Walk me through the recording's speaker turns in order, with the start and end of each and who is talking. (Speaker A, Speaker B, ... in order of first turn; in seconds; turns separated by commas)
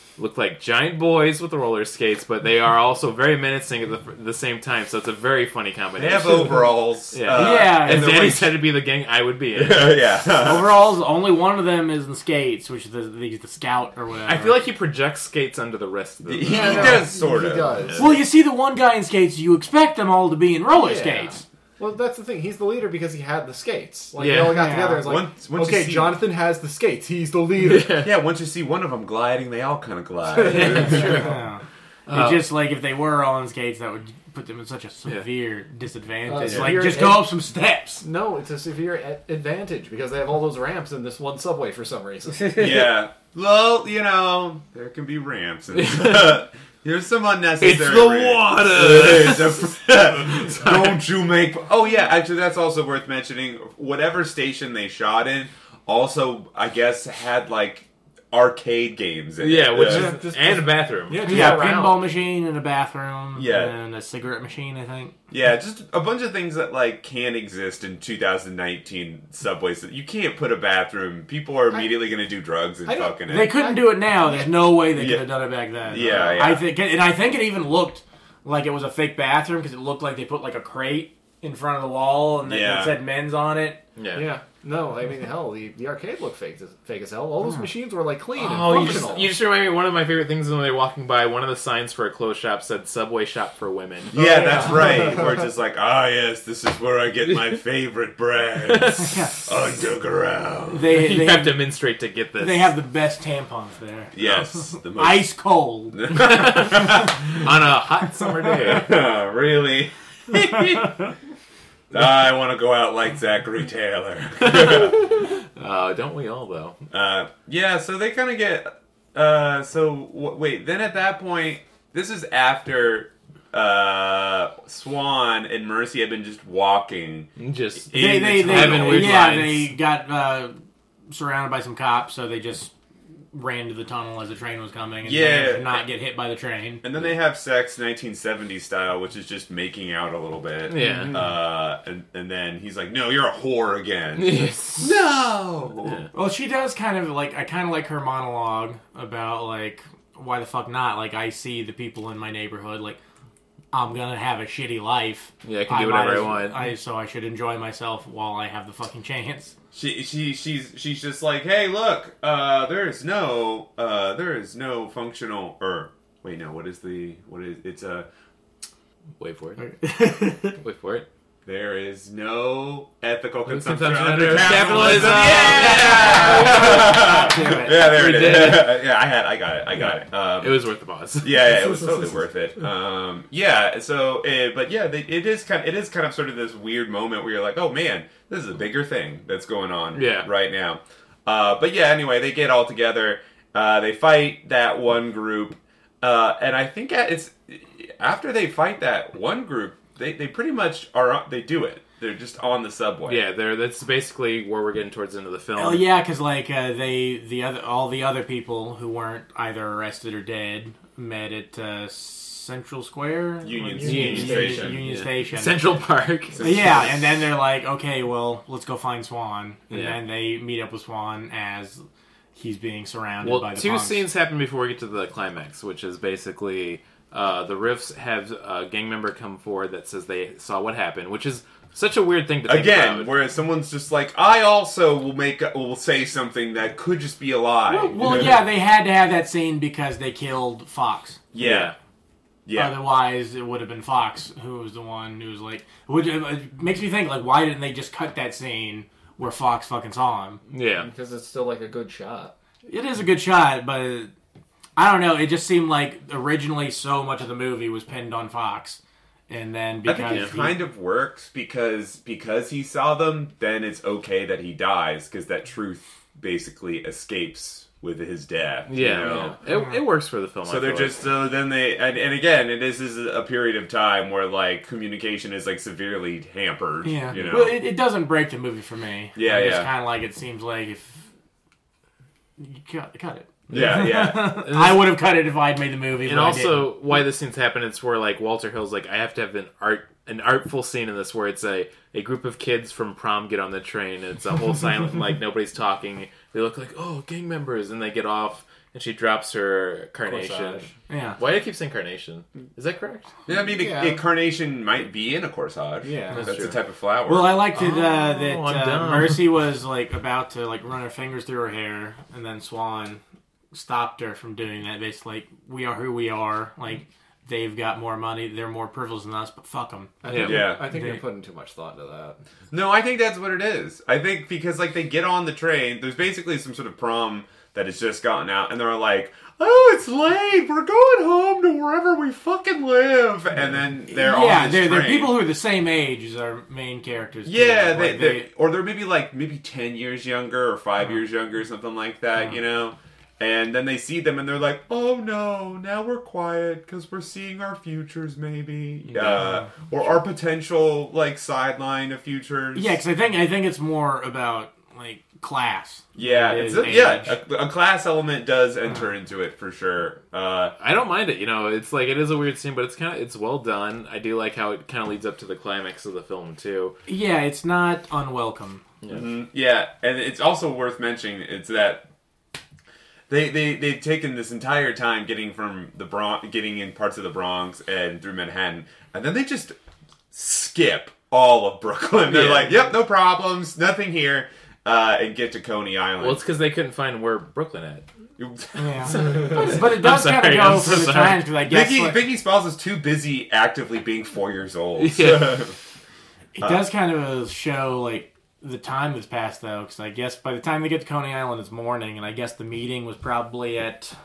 Speaker A: 0.2-10.3, Speaker B: 6.0-8.5, Speaker C: 7.3-8.4, Speaker B: 9.5-10.8, Speaker C: 10.4-14.6, Speaker A: 14.2-17.1, Speaker B: 16.2-17.9, Speaker D: 16.5-18.2, Speaker C: 18.0-21.4, Speaker D: 20.7-28.0, Speaker A: 24.2-24.6, Speaker C: 24.5-25.1, Speaker B: 25.0-26.2, Speaker A: 27.6-28.1, Speaker B: 28.0-31.3, Speaker D: 30.3-31.3, Speaker A: 30.4-31.4, Speaker C: 31.1-38.0, Speaker A: 32.1-32.4, Speaker D: 36.3-37.3, Speaker A: 36.5-36.7, Speaker D: 38.0-42.7, Speaker B: 42.5-60.2, Speaker A: 45.7-46.4, Speaker A: 47.6-51.0, Speaker A: 59.4-61.8, Speaker D: 59.8-62.0, Speaker C: 61.2-65.2, Speaker B: 63.3-63.7, Speaker B: 65.3-73.7, Speaker D: 71.7-72.0, Speaker D: 72.8-74.5, Speaker C: 73.3-83.8, Speaker B: 74.9-76.7, Speaker D: 76.0-76.4, Speaker B: 82.4-83.0, Speaker A: 84.0-84.3, Speaker D: 84.1-89.3, Speaker A: 88.3-94.1, Speaker B: 94.1-101.0, Speaker D: 94.1-95.4, Speaker C: 99.0-99.4, Speaker C: 100.7-101.7, Speaker A: 101.0-102.7, Speaker C: 102.4-106.2, Speaker B: 104.1-105.3, Speaker B: 105.9-107.2, Speaker A: 106.1-108.9, Speaker B: 108.5-111.1, Speaker B: 111.9-115.3, Speaker A: 114.4-116.8, Speaker B: 116.9-129.3, Speaker A: 127.4-129.7, Speaker C: 127.9-130.5, Speaker C: 131.1-132.7, Speaker C: 133.3-136.8, Speaker B: 135.0-135.8, Speaker B: 136.8-146.1, Speaker A: 140.7-141.2, Speaker A: 144.2-145.0, Speaker A: 145.8-146.1, Speaker C: 146.1-153.0, Speaker C: 153.7-159.5, Speaker A: 155.4-156.7, Speaker B: 159.7-168.1, Speaker A: 169.2-169.7, Speaker C: 169.6-170.6, Speaker A: 170.4-171.1, Speaker B: 171.4-180.7, Speaker A: 173.5-178.8, Speaker C: 175.8-177.9, Speaker A: 179.8-181.4, Speaker B: 181.2-203.2, Speaker D: 181.8-182.1, Speaker A: 189.9-190.3, Speaker A: 203.1-205.8, Speaker C: 205.6-215.8, Speaker B: 213.4-214.8, Speaker D: 213.8-214.6, Speaker A: 213.8-216.5, Speaker B: 216.3-217.1, Speaker C: 216.4-221.8, Speaker A: 219.7-220.0, Speaker C: 222.3-224.0, Speaker A: 223.2-233.1, Speaker B: 232.5-238.4, Speaker C: 237.7-241.2, Speaker B: 241.3-241.7, Speaker A: 241.4-241.7, Speaker B: 242.4-242.8, Speaker C: 242.5-250.4, Speaker A: 250.5-250.9, Speaker D: 250.8-252.3, Speaker C: 252.7-254.1, Speaker C: 254.8-260.6, Speaker B: 259.8-269.4, Speaker A: 260.1-260.3, Speaker A: 268.7-271.0, Speaker D: 269.0-269.3, Speaker C: 269.5-269.8, Speaker B: 270.4-277.6, Speaker C: 276.8-281.0, Speaker B: 279.1-279.7, Speaker C: 282.4-286.8, Speaker B: 283.5-284.4, Speaker A: 283.5-283.9, Speaker A: 284.4-284.9, Speaker A: 286.0-303.1, Speaker D: 300.0-300.7, Speaker C: 300.9-301.2, Speaker B: 303.3-307.4, Speaker D: 303.3-304.0, Speaker D: 305.8-306.4, Speaker A: 306.1-306.6, Speaker C: 307.1-313.0, Speaker A: 307.5-309.3, Speaker C: 313.5-320.0, Speaker D: 320.0-322.2, Speaker A: 320.1-320.5, Speaker B: 320.2-320.6, Speaker C: 320.7-321.0, Speaker B: 322.5-335.2, Speaker C: 333.9-338.3, Speaker B: 337.2-352.8, Speaker C: 349.1-349.4, Speaker C: 352.5-357.1, Speaker B: 355.9-360.5, Speaker A: 360.6-366.8, Speaker C: 366.9-368.6, Speaker B: 368.9-371.9, Speaker B: 373.1-379.6, Speaker B: 380.1-386.2, Speaker A: 382.1-382.7, Speaker A: 386.0-387.9, Speaker B: 388.2-389.5, Speaker C: 388.6-392.0, Speaker A: 388.9-391.2, Speaker B: 391.4-395.6, Speaker A: 394.8-395.5, Speaker C: 396.3-403.9